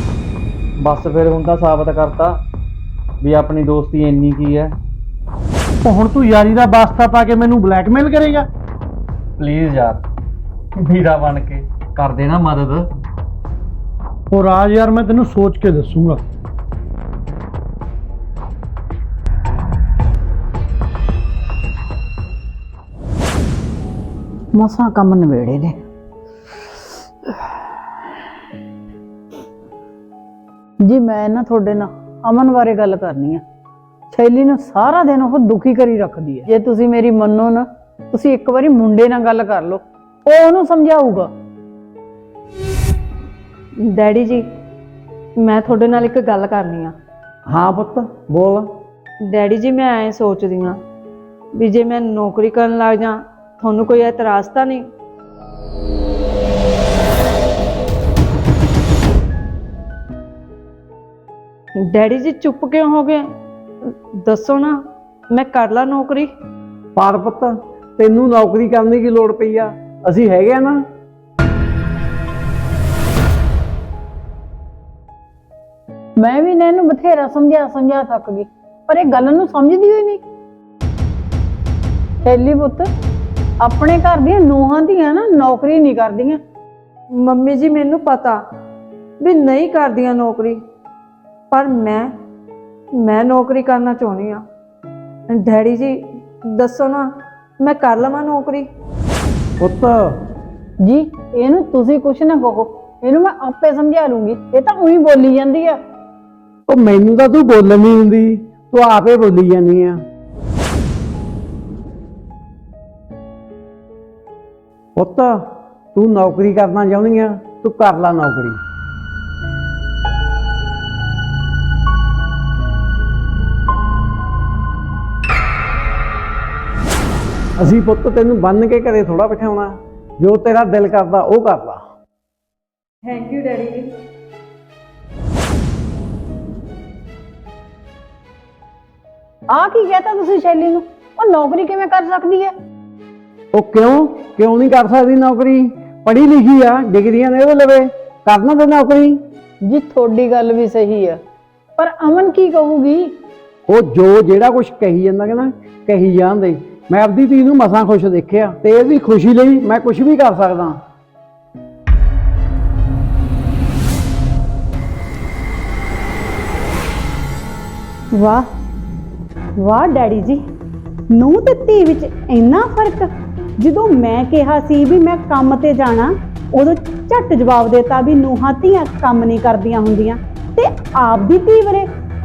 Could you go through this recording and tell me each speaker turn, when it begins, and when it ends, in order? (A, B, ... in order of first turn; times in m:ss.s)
0:00.8-0:02.4 A
0:03.2-0:04.8 A
0:05.8-0:08.5 B
0:09.4-0:10.0 A
0:10.8-0:12.9 A
0:14.3-0:16.2 B
0:24.5-0:25.8 C
0:30.8-0:33.4 C
0:34.1-0:41.3 C
0:43.9-0:44.5 D
0:45.4-0:46.9 D
0:47.5-0:48.7 E
0:49.3-0:50.8 D
0:51.6-0:54.8 D
1:01.8-1:03.2 D
1:04.2-1:04.8 D
1:05.3-1:06.3 D
1:07.0-1:10.8 E
1:16.2-1:20.2 C
1:22.2-1:22.9 C
1:23.6-1:26.4 C
1:27.2-1:28.4 D
1:29.2-1:30.6 D
1:31.5-1:32.1 D
1:33.0-1:34.4 D
1:35.3-1:36.0 D
1:36.5-1:37.1 D
1:37.6-1:38.7 D
1:39.6-1:40.0 E
1:40.8-1:45.8 C
1:46.7-1:50.0 E
1:55.0-1:55.4 E
1:56.0-1:58.6 E
2:07.6-2:11.8 E
2:13.0-2:13.9 D
2:19.5-2:22.5 C
2:23.5-2:29.2 E
2:29.6-2:31.2 C
2:31.8-2:33.1 C
2:33.7-2:40.8 E
2:48.1-2:48.5 F
2:49.6-2:50.4 F
2:51.1-2:53.1 F
2:53.6-3:01.9 F